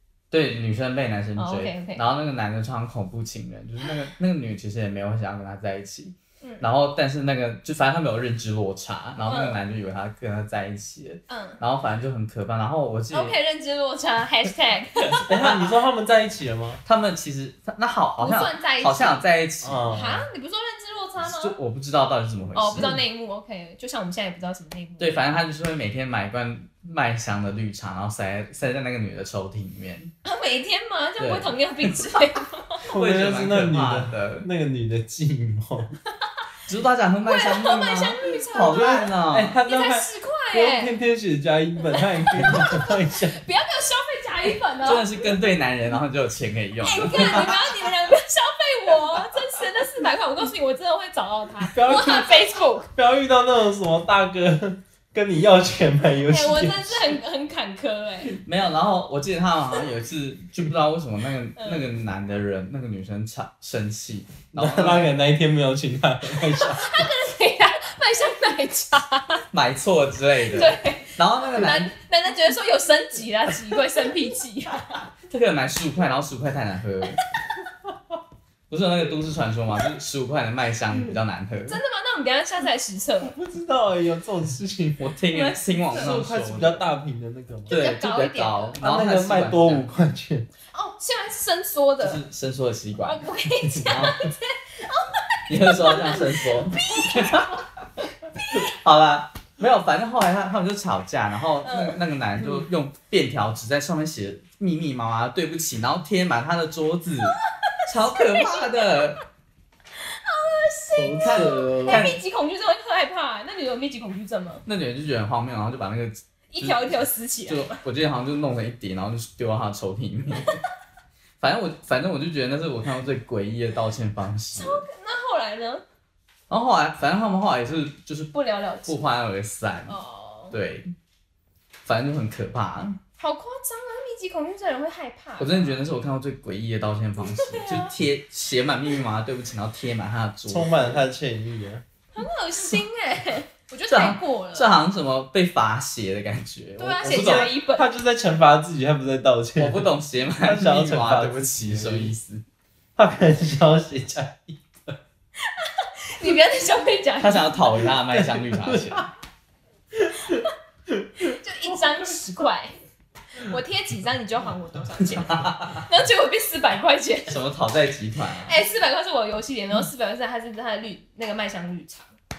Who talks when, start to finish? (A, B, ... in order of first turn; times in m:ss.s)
0:00.3-0:13.4 A
0:01.4-0:02.0 B
0:06.4-0:06.6 B
0:09.2-0:09.6 B
0:11.3-0:11.6 B
0:13.1-0:15.3 B
0:15.1-0:16.8 C
0:15.4-0:15.7 A
0:16.8-0:19.9 A
0:18.2-0:19.2 B
0:19.6-0:20.3 C
0:19.9-0:21.6 B
0:21.2-0:23.0 A
0:22.5-0:25.2 B
0:25.0-0:30.1 A
0:30.2-0:32.8 B
0:31.2-0:32.0 A
0:32.9-0:34.5 A
0:32.9-0:35.9 C
0:36.7-0:39.6 A
0:37.2-0:39.1 B
0:38.6-0:43.4 C
0:39.6-0:40.9 B
0:41.9-0:45.1 B
0:44.8-0:47.8 A
0:46.8-0:52.9 B
0:51.7-0:57.2 C
0:56.3-0:58.4 B
0:58.4-1:05.1 A
1:01.6-1:01.9 B
1:04.5-1:07.1 C
1:06.5-1:09.4 B
1:09.5-1:11.9 A
1:10.5-1:15.0 B
1:15.3-1:17.2 A
1:18.7-1:21.8 A
1:21.7-1:23.3 B
1:23.3-1:25.0 C
1:25.0-1:26.8 A
1:25.3-1:26.2 B
1:25.9-1:27.8 C
1:27.7-1:28.8 B
1:27.7-1:29.9 A
1:28.8-1:30.5 C
1:30.7-1:32.2 B
1:32.0-1:33.3 A
1:33.0-1:37.6 B
1:33.7-1:34.1 C
1:33.9-1:34.2 A
1:35.5-1:37.6 A
1:38.2-1:38.7 B
1:38.5-1:49.2 A
1:41.6-1:42.0 B
1:47.7-1:49.0 B
1:50.0-1:54.6 B
1:51.0-1:52.1 C
1:51.1-1:52.2 A
1:54.6-2:00.6 A
1:56.5-1:57.8 B
2:01.4-2:04.8 A
2:04.5-2:05.8 B
2:06.5-2:10.0 A
2:08.3-2:09.0 B
2:09.9-2:10.6 B
2:10.5-2:10.9 A
2:11.8-2:13.0 A
2:13.2-2:15.8 B
2:15.4-2:21.0 A
2:17.2-2:18.0 B
2:20.5-2:21.8 C
2:22.2-2:24.7 B
2:23.9-2:27.5 A
2:26.8-2:27.8 B
2:27.0-2:29.9 C
2:29.6-2:32.4 A
2:30.4-2:32.1 C
2:33.0-2:35.0 C
2:35.5-2:37.6 B
2:37.2-2:39.1 A
2:38.0-2:39.1 C
2:39.9-2:41.4 C
2:41.3-2:42.7 B
2:43.4-2:47.4 B
2:45.1-2:45.8 A
2:47.3-2:48.6 A
2:48.4-2:52.1 B